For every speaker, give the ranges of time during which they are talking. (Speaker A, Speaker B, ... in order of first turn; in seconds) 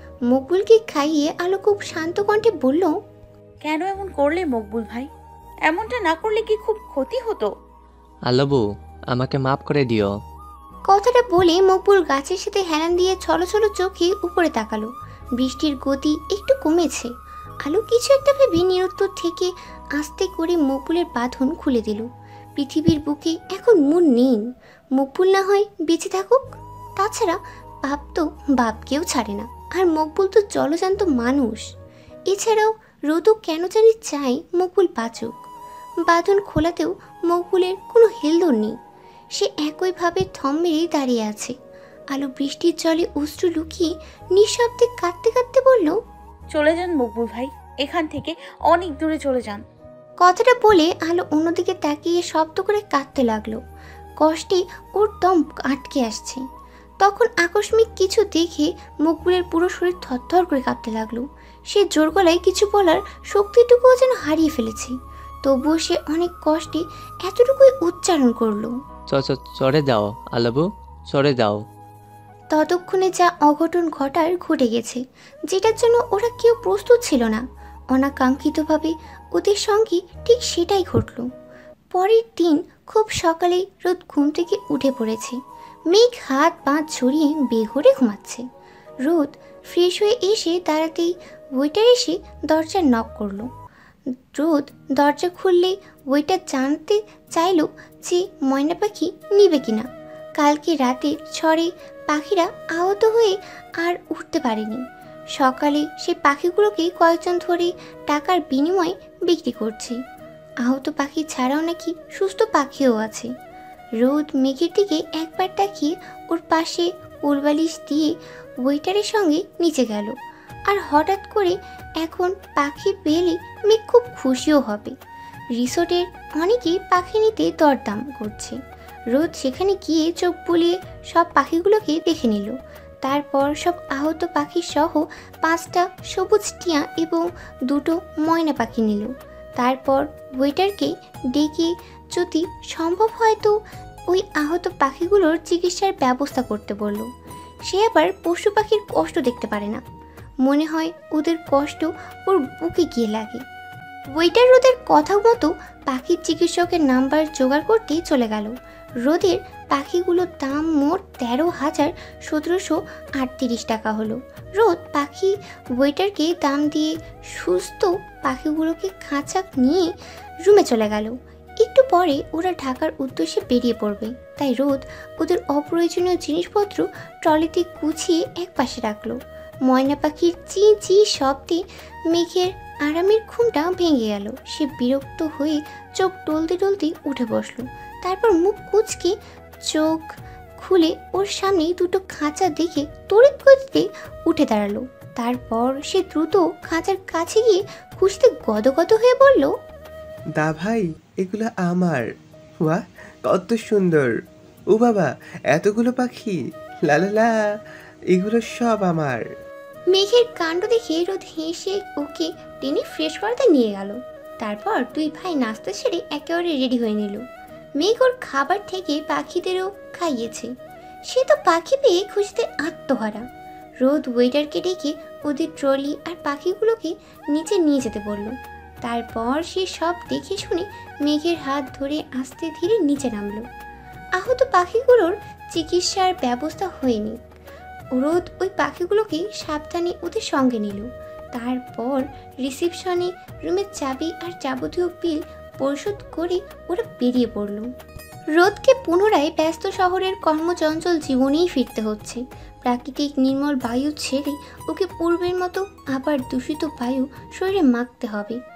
Speaker A: 0.3-2.9, 10.9-17.1, 17.6-24.4, 24.9-26.4, 27.0-31.7, 32.3-35.3, 36.1-38.8, 39.3-41.5, 42.1-46.0, 50.2-53.6, 54.2-56.4, 57.0-68.7, 72.5-81.3, 81.9-85.4, 85.9-88.4, 89.0-93.5, 94.3-104.8, 105.4-110.0, 110.6-113.3, 114.0-118.1, 118.6-120.1, 120.7-124.9, 125.6-128.6, 129.1-143.5, 144.1-147.1, 147.7-149.8, 150.4-153.4, 154.2-169.9, 170.4-189.2, 189.7-199.5, 209.9-217.2, 217.8-220.5, 221.1-223.2, 223.8-233.4, 234.2-237.2, 237.9-247.7, 248.3-258.4
Speaker B: 3.6-5.1, 5.7-7.5, 46.5-49.6
Speaker C: 8.3-10.1, 69.1-71.6
Speaker D: 200.4-202.0, 202.6-204.1, 204.7-207.3, 208.1-209.2